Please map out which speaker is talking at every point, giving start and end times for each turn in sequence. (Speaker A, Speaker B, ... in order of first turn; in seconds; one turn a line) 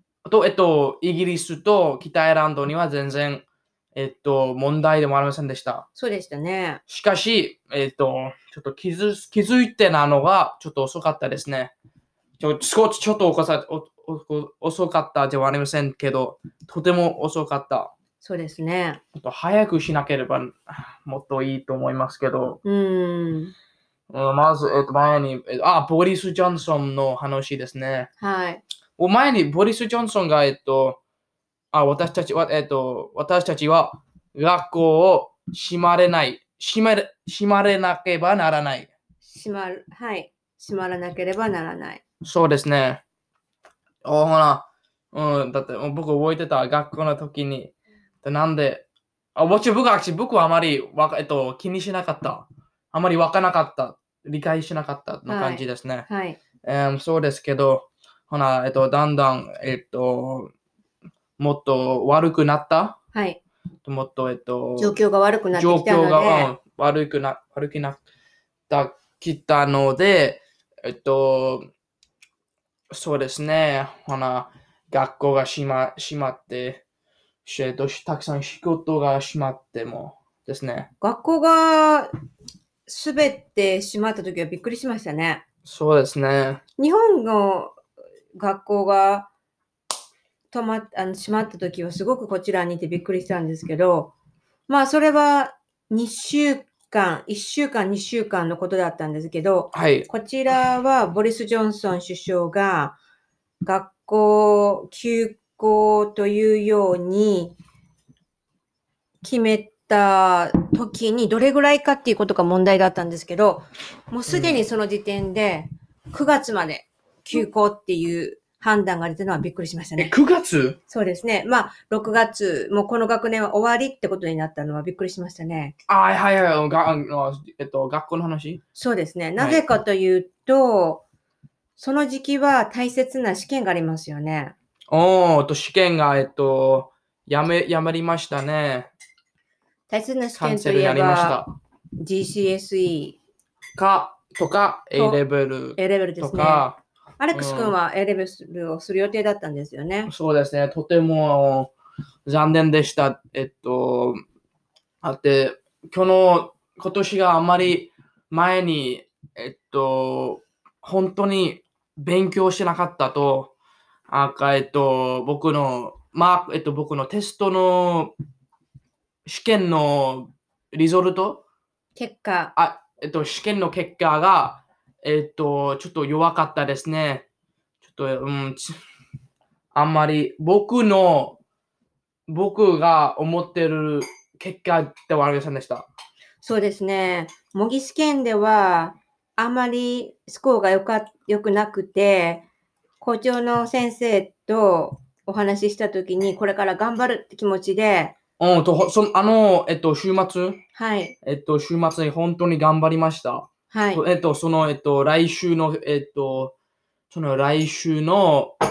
Speaker A: 0.2-5.8
Speaker B: 6.0-6.8
Speaker A: 6.9-11.7
Speaker A: 12.4-17.9
Speaker B: 18.2-19.0
Speaker A: 19.1-22.6
Speaker B: 22.6-23.5
Speaker A: 24.1-28.1
Speaker B: 28.2-28.6
Speaker A: 29.0-31.0
Speaker A: 31.7-38.9
Speaker B: 39.2-42.0
Speaker A: 42.2-43.0
Speaker A: 44.0-56.1
Speaker B: 55.3-56.4
Speaker A: 56.6-60.5
Speaker A: 61.4-63.0
Speaker B: 63.1-63.4
Speaker A: 63.8-65.0
Speaker B: 64.8-66.5
Speaker A: 65.5-68.0
Speaker A: 68.7-71.7
Speaker A: 72.9-76.8
Speaker A: 77.4-80.9
Speaker B: 81.0-82.1
Speaker B: 82.9-85.4
Speaker A: 85.6-86.6
Speaker B: 86.8-87.8
Speaker B: 88.3-89.3
Speaker B: 90.5-94.1
Speaker B: 94.7-103.0
Speaker A: 99.7-100.1
Speaker B: 103.6-107.6
Speaker B: 109.2-120.1
Speaker A: 114.3-114.6
Speaker A: 120.0-120.8
Speaker B: 120.9-125.7
Speaker A: 125.9-128.6
Speaker B: 128.7-131.0
Speaker B: 131.8-134.5
Speaker A: 134.9-138.9
Speaker B: 139.9-141.4
Speaker A: 140.3-141.5
Speaker B: 142.0-143.2
Speaker A: 143.8-146.8
Speaker B: 144.9-145.2
Speaker B: 145.8-146.7
Speaker B: 147.2-150.1
Speaker A: 147.3-147.8
Speaker A: 150.1-151.7
Speaker A: 152.2-154.2
Speaker A: 155.0-163.5
Speaker A: 164.1-168.1
Speaker A: 169.2-171.4
Speaker B: 171.9-172.5
Speaker A: 172.6-177.3
Speaker A: 177.8-178.8
Speaker A: 179.7-181.4
Speaker A: 182.3-185.9
Speaker B: 186.4-192.4
Speaker B: 193.0-198.1
Speaker A: 198.4-200.6
Speaker B: 200.7-201.1
Speaker A: 201.2-206.5
Speaker B: 203.7-204.0
Speaker A: 207.1-208.5